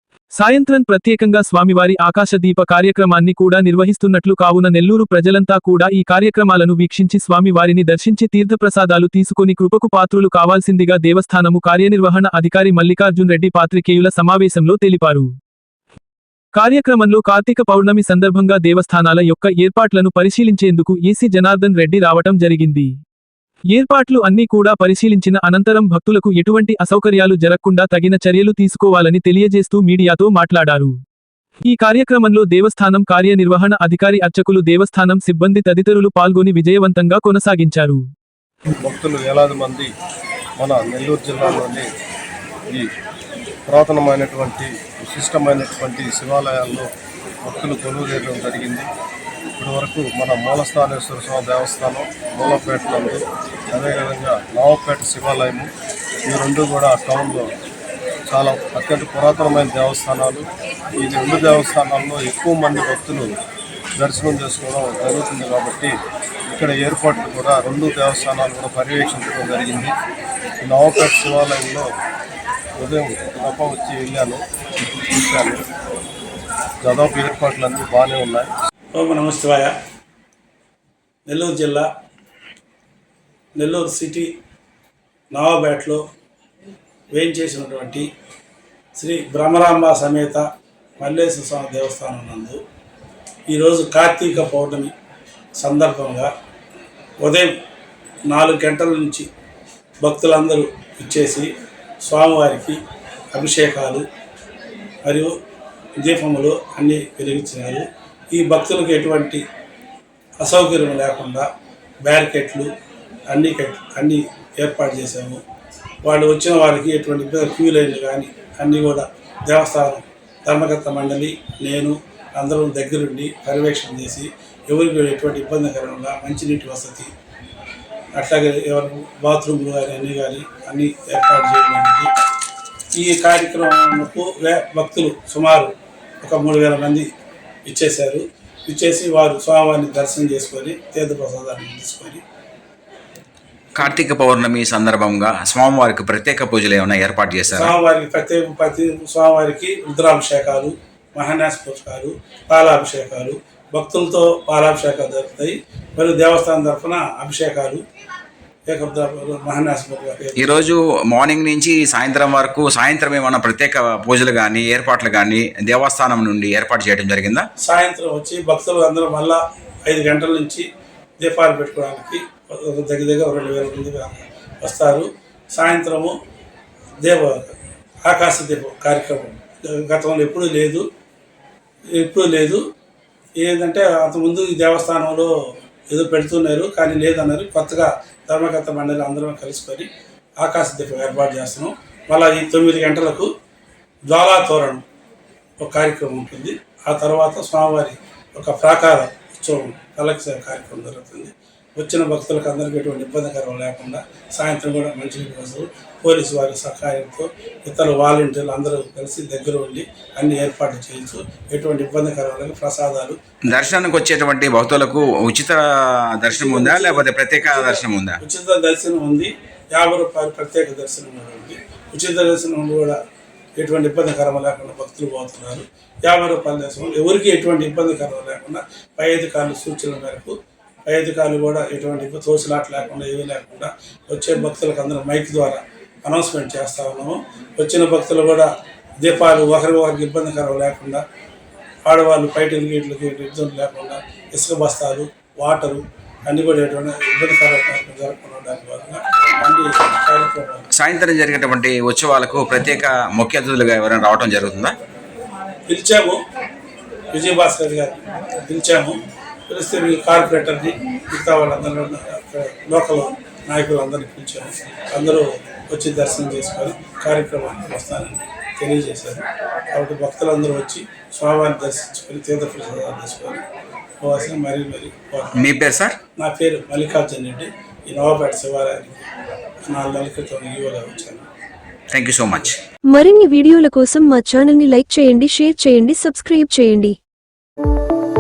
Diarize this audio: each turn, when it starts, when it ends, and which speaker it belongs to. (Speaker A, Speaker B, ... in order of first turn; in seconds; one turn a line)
Speaker A: 0.4-15.3
Speaker A: 16.6-22.9
Speaker A: 23.7-30.9
Speaker A: 31.7-38.0
Speaker B: 38.8-39.9
Speaker B: 40.6-41.9
Speaker B: 43.7-46.9
Speaker B: 47.4-48.9
Speaker B: 49.6-53.2
Speaker B: 53.7-55.7
Speaker B: 56.3-57.5
Speaker B: 58.3-63.3
Speaker B: 64.0-66.0
Speaker B: 66.5-70.0
Speaker B: 70.6-71.9
Speaker B: 72.8-75.6
Speaker B: 76.8-78.5
Speaker C: 78.9-79.8
Speaker C: 81.3-81.9
Speaker C: 83.6-84.3
Speaker C: 85.3-86.0
Speaker C: 87.1-88.1
Speaker C: 89.0-90.5
Speaker C: 91.0-92.6
Speaker C: 93.5-94.9
Speaker C: 95.6-96.3
Speaker C: 97.2-97.5
Speaker C: 98.3-99.3
Speaker C: 100.0-101.5
Speaker C: 102.0-102.8
Speaker C: 103.3-104.0
Speaker C: 105.0-105.3
Speaker C: 106.0-109.4
Speaker C: 110.4-111.5
Speaker C: 112.0-112.7
Speaker C: 113.3-115.4
Speaker C: 116.0-127.1
Speaker C: 128.2-132.1
Speaker C: 132.9-137.1
Speaker C: 137.7-142.2
Speaker D: 143.8-147.7
Speaker C: 147.5-157.8
Speaker C: 158.7-160.7
Speaker D: 160.4-167.5
Speaker C: 167.6-170.7
Speaker C: 171.2-176.2
Speaker C: 177.0-180.9
Speaker C: 181.9-182.6
Speaker C: 183.4-185.3
Speaker C: 185.9-193.3
Speaker C: 194.1-194.8
Speaker C: 195.6-213.2
Speaker D: 213.5-218.2
Speaker C: 216.3-223.0
Speaker C: 223.6-230.3
Speaker C: 230.9-241.0
Speaker C: 241.8-250.7
Speaker D: 250.7-254.8
Speaker C: 255.7-256.2
Speaker C: 257.1-259.0
Speaker C: 259.5-273.4
Speaker C: 274.0-275.6
Speaker D: 275.3-276.0
Speaker C: 276.2-279.0
Speaker C: 279.7-281.3
Speaker D: 281.9-282.6
Speaker E: 282.9-287.0